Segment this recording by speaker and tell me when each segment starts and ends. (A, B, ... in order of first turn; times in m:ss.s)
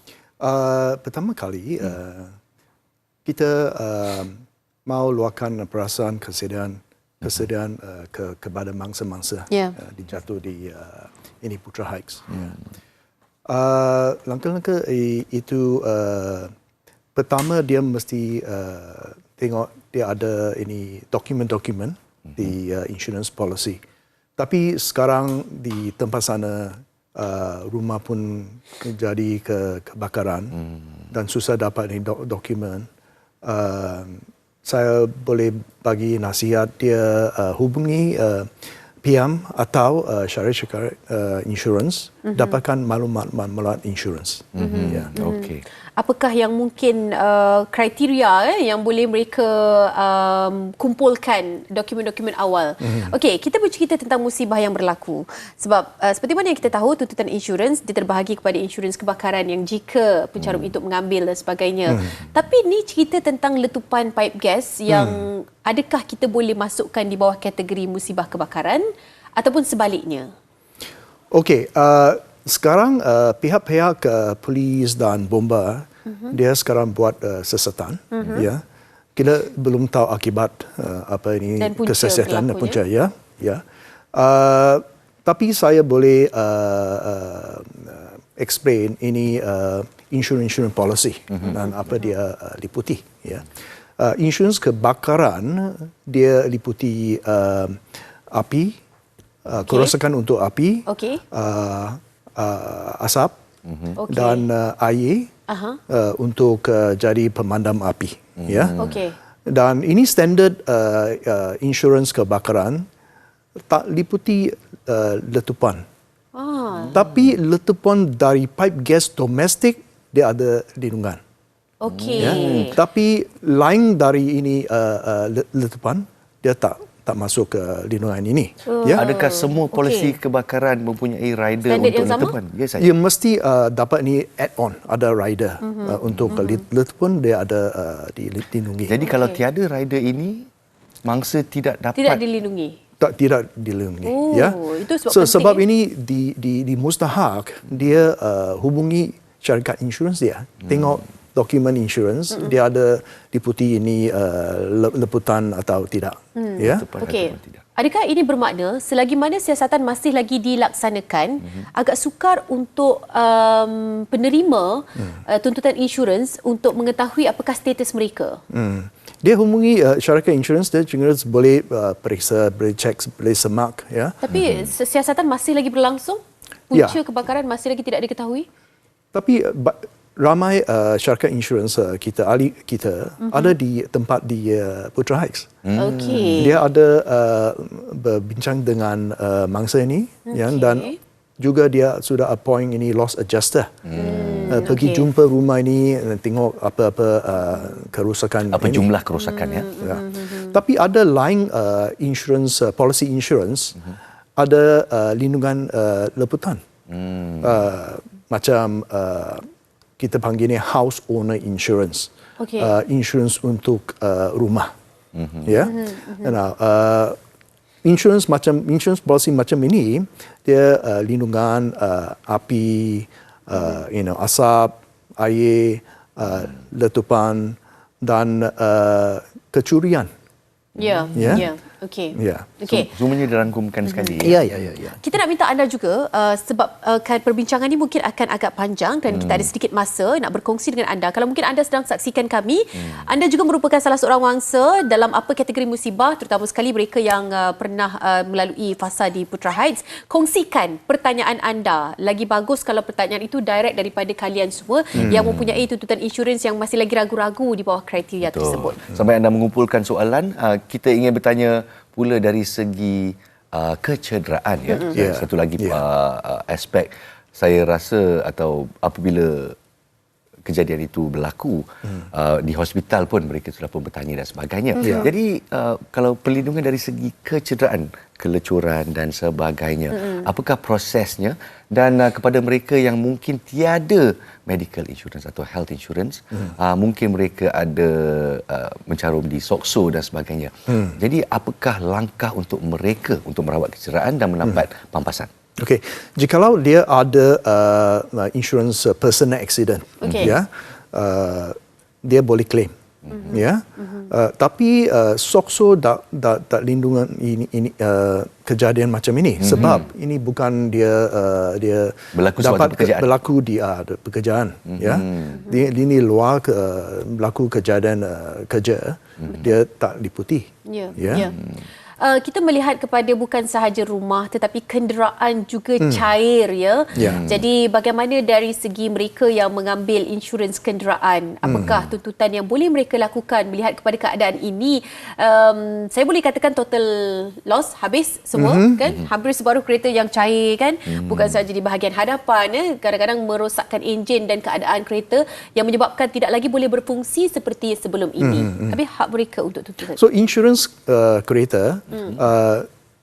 0:00.4-0:02.3 A
0:03.2-0:12.6 A
0:09.5-0:09.8 B
0:13.5-0:16.5 A
0:17.1-0:23.8 A
0:24.4-0:30.6 A
0:31.1-0:32.9 A
0:33.4-0:38.5 A
0:39.0-0:45.1 A
0:42.2-0:42.6 B
0:44.5-0:45.6 C
0:44.6-1:10.3 B
0:52.8-0:53.1 A
1:04.9-1:05.3 A
1:11.3-1:18.6 A
1:16.1-1:16.4 B
1:18.1-1:18.5 B
1:19.2-1:23.6 A
1:21.6-1:22.8 B
1:24.1-1:38.8 A
1:31.5-1:32.1 B
1:39.4-1:43.3 A
1:39.6-1:40.0 B
1:40.8-1:41.2 B
1:43.6-1:44.0 C
1:43.9-1:44.5 B
1:44.1-1:45.3 A
1:45.5-1:45.8 B
1:45.9-1:48.8 A
1:48.4-1:49.0 C
1:48.8-1:49.2 B
1:49.4-1:52.9 A
1:53.7-1:55.8 A
1:56.3-1:57.0 B
1:56.9-2:01.2 A
2:01.8-2:02.8 B
2:01.9-2:02.8 C
2:02.2-2:09.0 A
2:08.7-2:10.2 B
2:08.9-2:12.9 C
2:11.6-2:12.3 B
2:12.8-2:19.0 A
2:15.6-2:16.6 B
2:16.0-2:16.4 C
2:18.9-2:20.5 C
2:19.0-2:19.4 B
2:21.0-2:22.2 C
2:22.0-2:22.8 B
2:23.0-2:36.9 A
2:24.0-2:25.6 B
2:36.4-2:48.4 B
2:36.6-2:37.6 C
2:48.5-2:54.2 A
2:54.2-2:58.5 B
2:56.7-2:57.0 A
2:59.1-3:05.6 A
3:03.2-3:03.5 B
3:05.6-3:06.3 C
3:05.8-3:06.6 B
3:06.3-3:13.7 A
3:10.3-3:11.0 B
3:13.8-3:14.6 C
3:13.9-3:15.1 B
3:14.4-3:18.9 A
3:18.5-3:19.8 C
3:19.2-3:20.6 B
3:19.8-3:23.8 A
3:24.4-3:26.6 A
3:26.9-3:27.6 C
3:27.4-3:29.4 A
3:30.0-3:34.7 A
3:32.4-3:32.7 B
3:35.1-3:35.5 C
3:35.4-3:37.2 A
3:35.6-3:36.4 B
3:37.8-3:50.1 A
3:50.8-3:52.9 B
3:50.8-3:51.4 C
3:51.1-3:51.5 A
3:52.1-3:52.5 A
3:52.7-3:54.4 C
3:54.2-3:55.0 A
3:55.0-4:18.8 B
3:59.1-3:59.5 C
4:02.8-4:03.0 C
4:15.0-4:15.6 C
4:18.2-4:29.5 C
4:24.7-4:25.0 B
4:24.9-4:25.8 A
4:30.4-4:55.3 C
4:34.7-4:35.1 B
4:34.8-4:35.1 A
4:40.0-4:40.2 B
4:50.7-4:51.0 A
4:55.6-5:02.7 A
5:00.0-5:00.3 B
5:00.0-5:00.4 C
5:03.1-5:03.4 C
5:03.1-5:04.1 B
5:03.3-5:21.3 A
5:09.4-5:09.9 C
5:12.1-5:13.1 C
5:14.6-5:15.4 C
5:15.3-5:15.6 B
5:19.2-5:19.5 C
5:20.6-5:21.3 B
5:21.1-5:21.6 C
5:22.0-5:50.0 B
5:25.8-5:26.0 A
5:26.9-5:27.2 A
5:27.0-5:27.4 C
5:31.4-5:31.8 A
5:38.3-5:38.8 A
5:40.9-5:41.4 C
5:48.2-5:48.8 A
5:50.0-5:52.7 A
5:51.9-5:52.2 B